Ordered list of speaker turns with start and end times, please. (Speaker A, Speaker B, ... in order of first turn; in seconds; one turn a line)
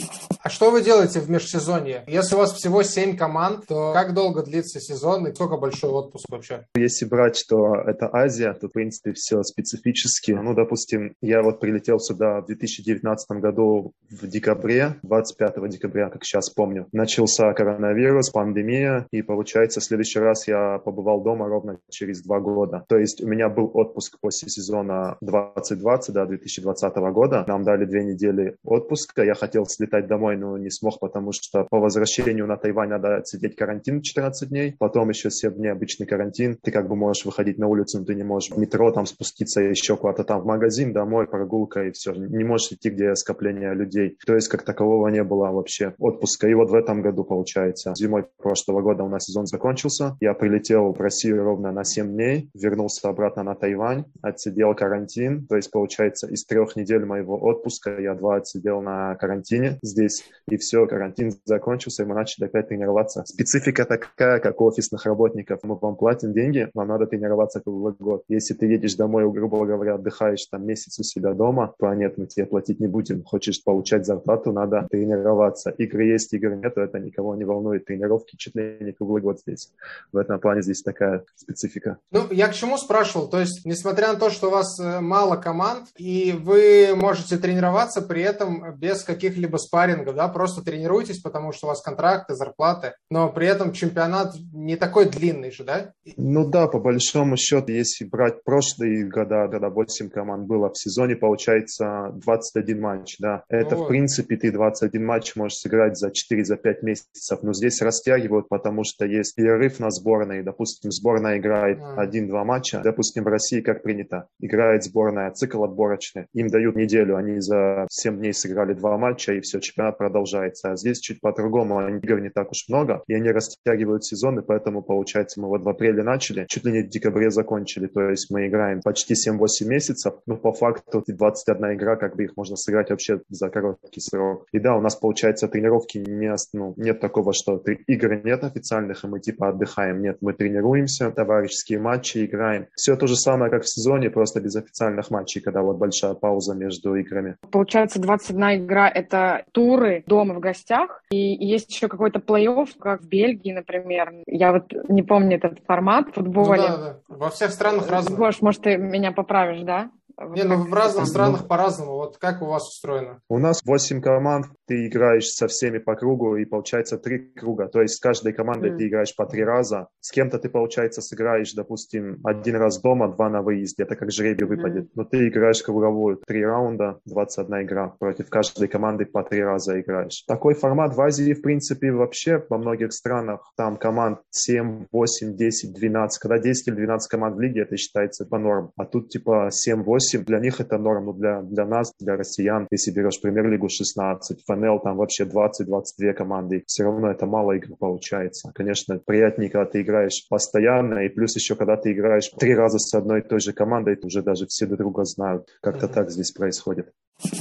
Speaker A: 0.4-6.7
Speaker B: 6.8-82.0
Speaker A: 82.1-96.2
Speaker B: 96.2-147.4
Speaker A: 103.6-104.0
Speaker A: 111.8-112.1
Speaker C: 147.5-156.8
Speaker A: 156.4-158.3
Speaker C: 157.7-161.2
Speaker A: 160.3-163.2
Speaker B: 161.0-161.4
Speaker B: 163.3-206.9